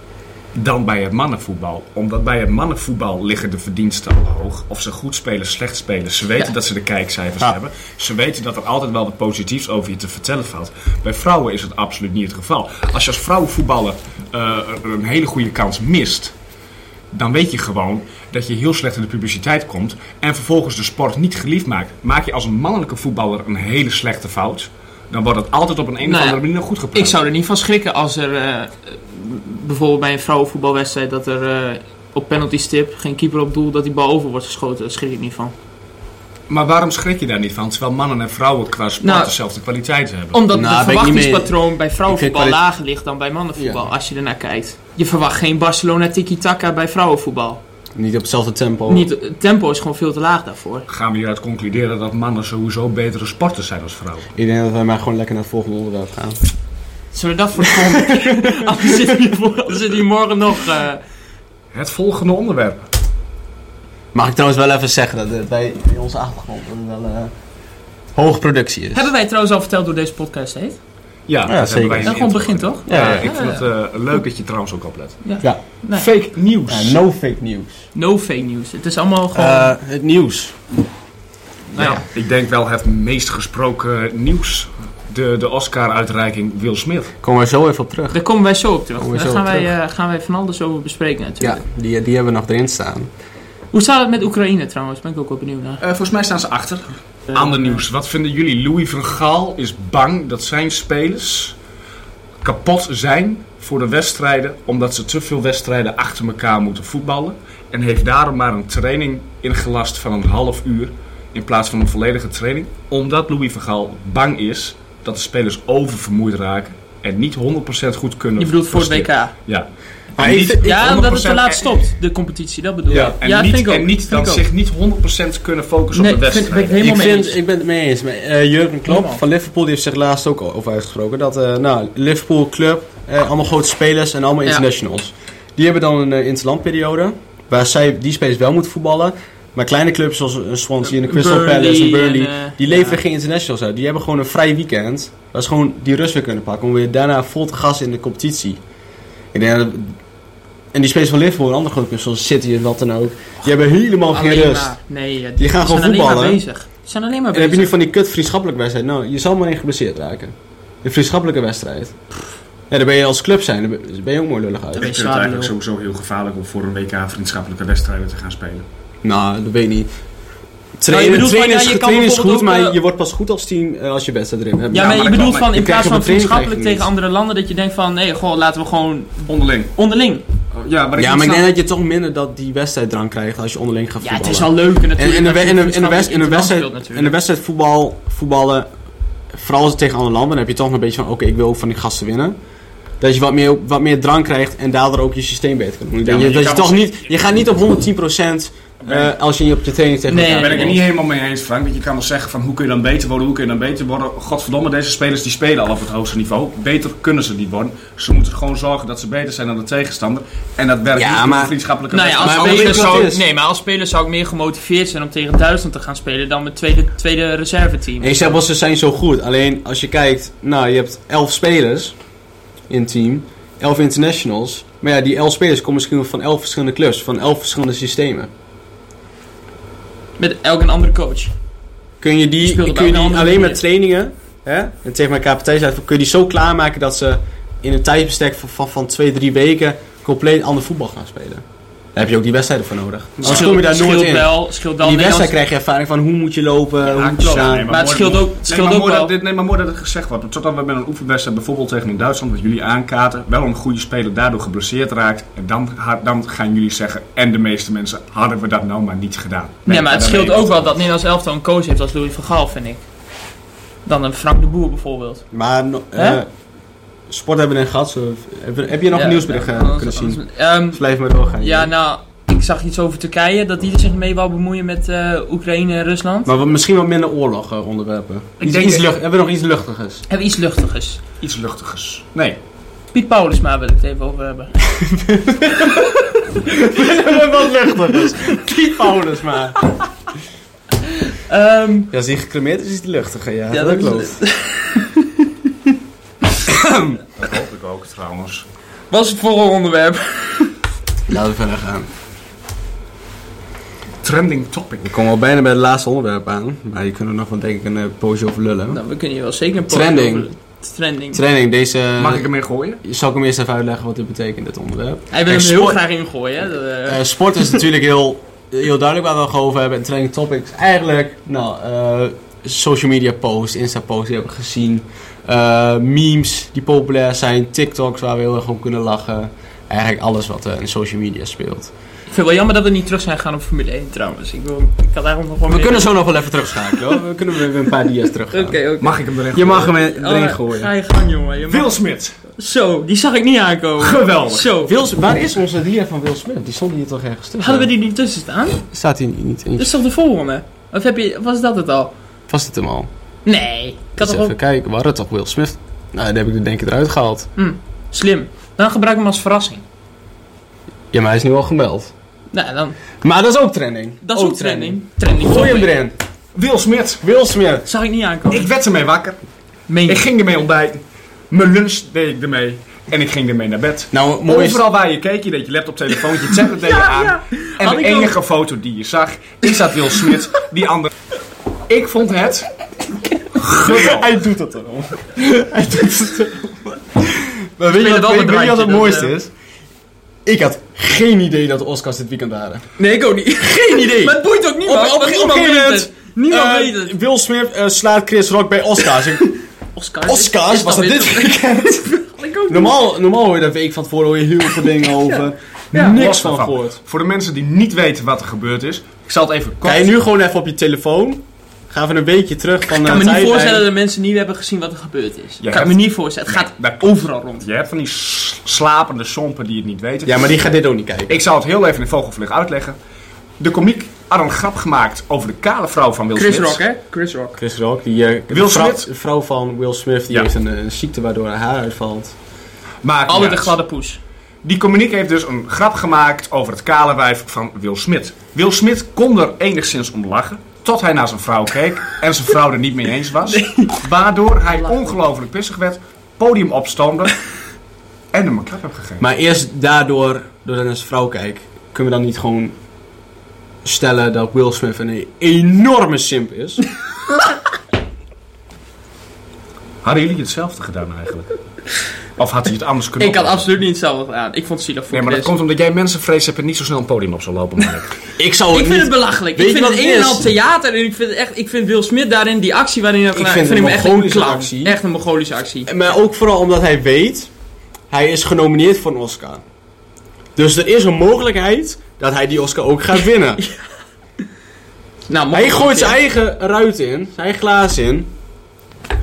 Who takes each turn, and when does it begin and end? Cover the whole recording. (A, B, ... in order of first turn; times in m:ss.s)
0:00.6-0:16.3 A
0:17.1-0:27.2 A
0:26.0-0:26.4 B
0:26.9-0:35.5 B
0:36.5-0:40.4 A
0:39.0-0:39.3 B
0:40.3-0:47.6 B
0:40.5-0:41.6 C
0:42.1-0:42.6 C
0:43.6-0:43.9 C
0:48.0-0:49.1 C
0:48.9-0:50.9 B
0:50.9-0:54.3 A
0:54.4-0:56.4 C
0:57.1-1:01.0 B
0:57.6-0:59.1 C
1:01.7-1:02.9 A
1:04.1-1:07.3 C
1:08.2-1:09.1 C
1:08.9-1:10.8 B
1:11.3-1:15.2 A
1:11.5-1:12.2 C
1:12.0-1:13.7 B
1:12.9-1:13.3 C
1:15.2-1:16.1 B
1:15.9-1:17.0 A
1:16.7-1:17.8 C
1:17.9-1:19.8 B
1:19.3-1:20.6 C
1:21.7-1:22.0 B
1:21.8-1:27.1 A
1:27.2-1:28.2 C
1:28.1-1:31.6 B
1:29.0-1:29.7 C
1:31.4-1:33.1 C
1:33.7-1:35.8 B
1:35.8-1:41.6 A
1:42.4-2:01.8 A
1:58.4-1:59.3 B
2:00.2-2:00.9 C
2:00.6-2:04.4 B
2:02.9-2:06.9 A
2:05.9-2:07.4 B
2:06.8-2:28.6 C
2:08.9-2:09.2 B
2:20.8-2:23.0 B
2:29.3-2:30.0 C
2:30.7-2:34.8 C
2:34.1-2:37.7 B
2:35.4-2:36.4 C
2:37.3-2:42.0 C
2:42.7-2:44.9 C
2:44.8-2:45.5 B
2:44.8-2:48.7 A
2:49.0-2:49.9 C
2:50.8-2:54.9 C
2:50.9-2:52.8 B
2:54.7-3:00.3 B
2:54.7-2:55.5 A
2:55.5-2:56.9 C
2:59.3-2:59.7 A
3:00.5-3:01.4 A
3:01.0-3:08.7 C
3:04.0-3:07.2 B
3:09.3-3:12.4 C
3:13.0-3:20.8 C
3:16.0-3:17.0 A
3:18.8-3:19.1 A
3:20.1-3:20.8 B
3:20.3-3:33.1 A
3:31.0-3:31.5 C
3:31.9-3:38.4 B
3:32.2-3:33.2 C
3:38.0-3:42.0 C
3:42.7-3:48.3 C
3:50.2-3:51.3 B
3:52.0-4:07.7 C
3:52.4-3:53.6 B
4:03.2-4:03.6 A
4:03.2-4:05.4 B
4:06.9-4:09.1 B
4:06.9-4:20.8 A
4:19.7-4:22.8 B
4:23.8-4:25.2 B
4:25.3-4:26.3 C
4:27.1-4:30.2 C
4:28.9-4:30.8 B
4:30.7-4:31.7 C
4:31.4-4:36.3 B
4:36.3-4:40.0 C
4:38.4-4:38.8 A
4:40.1-4:41.0 B
4:41.2-4:42.4 A
4:42.9-4:44.6 B
4:44.8-4:45.8 C
4:46.4-4:49.6 C
4:50.8-4:51.9 B
4:51.9-4:54.2 C
4:53.5-4:55.3 B
4:56.5-4:58.4 A
4:58.9-5:00.6 B
5:01.1-5:01.9 C
5:04.0-5:04.9 A
5:04.8-5:08.8 C
5:08.7-5:11.2 B
5:09.7-5:10.3 C
5:11.1-5:12.3 C
5:12.0-5:12.8 A
5:12.8-5:15.8 C
5:15.1-5:17.6 B
5:16.9-5:31.7 C
5:32.1-5:36.1 B
5:35.5-5:38.6 C
5:36.7-5:37.0 B
5:38.3-5:39.0 B
5:38.8-5:39.7 A
5:39.3-5:40.7 C
5:39.6-5:44.8 B
5:41.5-5:42.2 A
5:43.8-5:44.5 A
5:44.6-5:47.7 C
5:47.4-5:48.6 B
5:48.7-5:49.7 C
5:49.6-5:51.9 B
5:52.3-5:52.9 C
5:53.2-5:54.4 B
5:54.0-5:57.3 C
5:57.4-5:59.6 B
6:00.9-6:01.9 C
6:02.3-6:02.8 B
6:03.0-6:05.9 C
6:04.0-6:05.8 B
6:06.4-6:07.0 A
6:07.0-6:07.7 C
6:07.7-6:08.5 B
6:08.3-6:09.2 A
6:09.7-6:10.1 B
6:09.9-6:20.9 A
6:13.9-6:14.6 C
6:16.3-6:18.1 B
6:21.7-6:22.5 A
6:23.4-6:24.0 A
6:23.6-6:29.3 C
6:27.7-6:29.1 B
6:30.2-6:32.7 C
6:32.8-6:37.0 B
6:33.4-6:39.4 C
6:39.8-6:42.8 B
6:40.1-6:42.0 C
6:42.5-6:46.8 C
6:45.8-6:49.9 A
6:49.6-6:53.7 C
6:52.7-6:57.5 B
6:55.4-7:00.3 A
7:00.0-7:01.2 C
7:01.1-7:02.8 A
7:03.4-7:06.6 A
7:06.2-7:07.4 B
7:07.4-7:12.2 C
7:08.3-7:08.9 A
7:12.8-7:13.6 A
7:13.1-7:14.0 B
7:14.4-7:27.2 A
7:23.3-7:23.8 B
7:24.6-7:24.9 B
7:28.1-7:29.1 A
7:29.0-7:32.6 C
7:33.6-7:36.6 C
7:39.8-7:41.4 A
7:42.2-7:43.5 A
7:43.0-7:45.3 B
7:44.9-7:48.0 A
7:48.2-7:50.3 C
7:48.5-7:55.7 B
7:53.1-7:54.8 C
7:55.7-7:57.3 C
7:57.9-7:59.4 C
8:00.4-8:03.4 C
8:05.1-8:06.0 B
8:05.3-8:08.1 C